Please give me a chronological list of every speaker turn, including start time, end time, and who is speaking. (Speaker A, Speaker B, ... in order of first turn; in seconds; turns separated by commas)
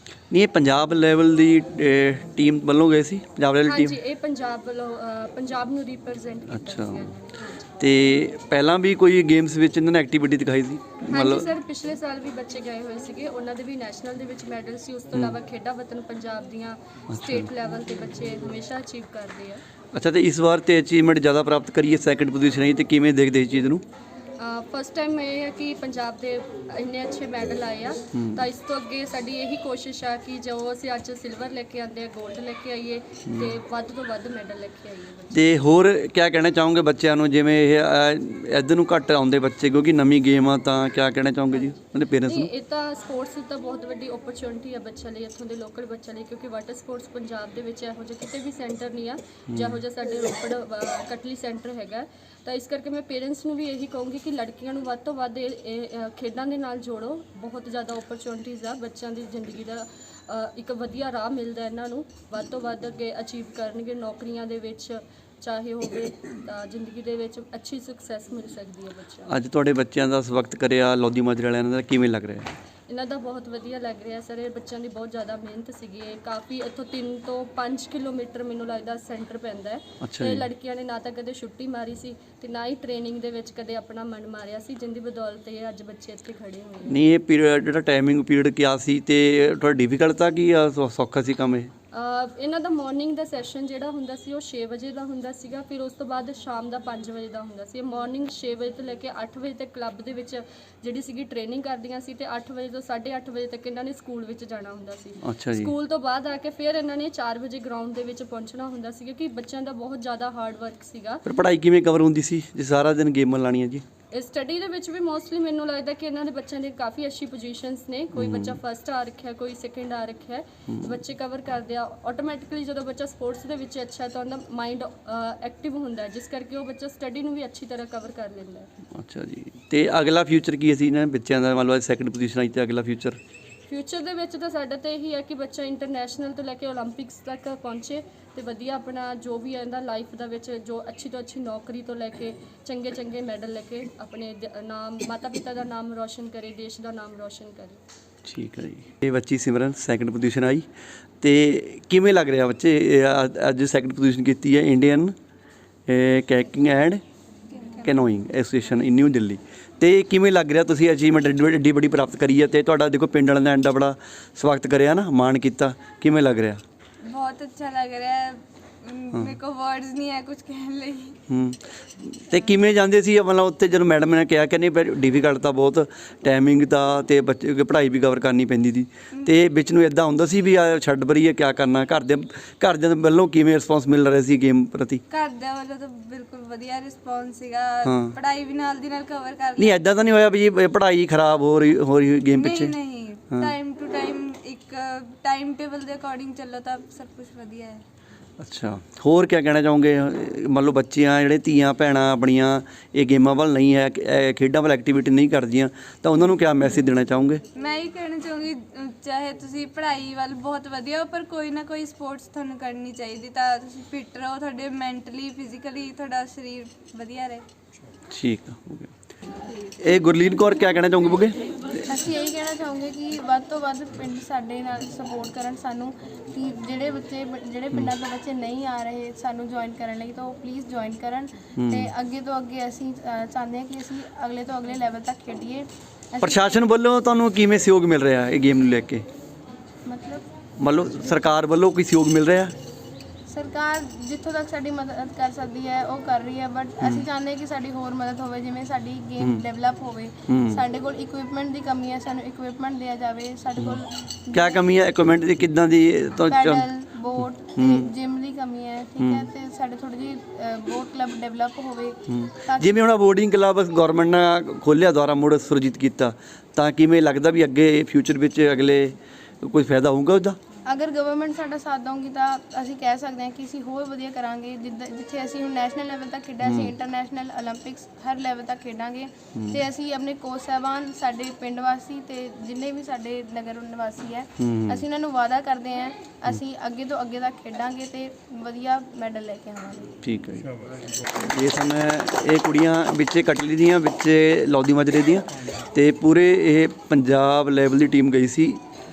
Speaker A: 0.3-4.0, Speaker B: 3.6-7.7, Speaker A: 6.5-7.1, Speaker A: 7.8-11.5, Speaker B: 11.1-19.6, Speaker A: 17.1-17.5, Speaker A: 19.9-23.8, Speaker B: 24.4-35.5, Speaker A: 28.1-28.4, Speaker A: 35.3-42.5, Speaker B: 42.2-69.3, Speaker A: 49.5-49.8, Speaker A: 69.3-72.5, Speaker B: 72.9-87.0, Speaker A: 80.0-80.5, Speaker A: 86.8-91.7, Speaker B: 91.9-111.2, Speaker A: 105.2-105.7, Speaker A: 111.2-113.8, Speaker B: 114.1-128.7, Speaker A: 118.1-118.6, Speaker A: 120.7-120.9, Speaker A: 128.9-133.2, Speaker B: 133.7-147.8, Speaker A: 148.2-150.7, Speaker A: 151.2-155.1, Speaker A: 155.9-157.0, Speaker C: 157.5-157.9, Speaker A: 157.8-166.6, Speaker C: 167.0-171.2, Speaker A: 171.3-185.0, Speaker C: 185.1-189.8, Speaker A: 187.8-188.1, Speaker A: 189.6-192.7, Speaker C: 192.4-197.8, Speaker A: 198.4-207.4, Speaker C: 207.6-217.4, Speaker A: 218.1-218.9, Speaker A: 219.8-221.4, Speaker D: 221.8-236.6, Speaker A: 231.6-231.9, Speaker A: 236.2-239.0, Speaker D: 239.8-240.2, Speaker A: 240.6-242.5, Speaker D: 243.3-254.6, Speaker A: 250.3-250.6, Speaker A: 254.3-256.7, Speaker D: 256.3-262.7, Speaker A: 257.6-257.9, Speaker A: 259.0-259.3, Speaker A: 262.1-270.4, Speaker D: 270.6-289.9, Speaker A: 276.4-276.7, Speaker A: 279.3-279.6, Speaker A: 284.4-284.8, Speaker A: 290.0-290.5, Speaker A: 291.1-298.6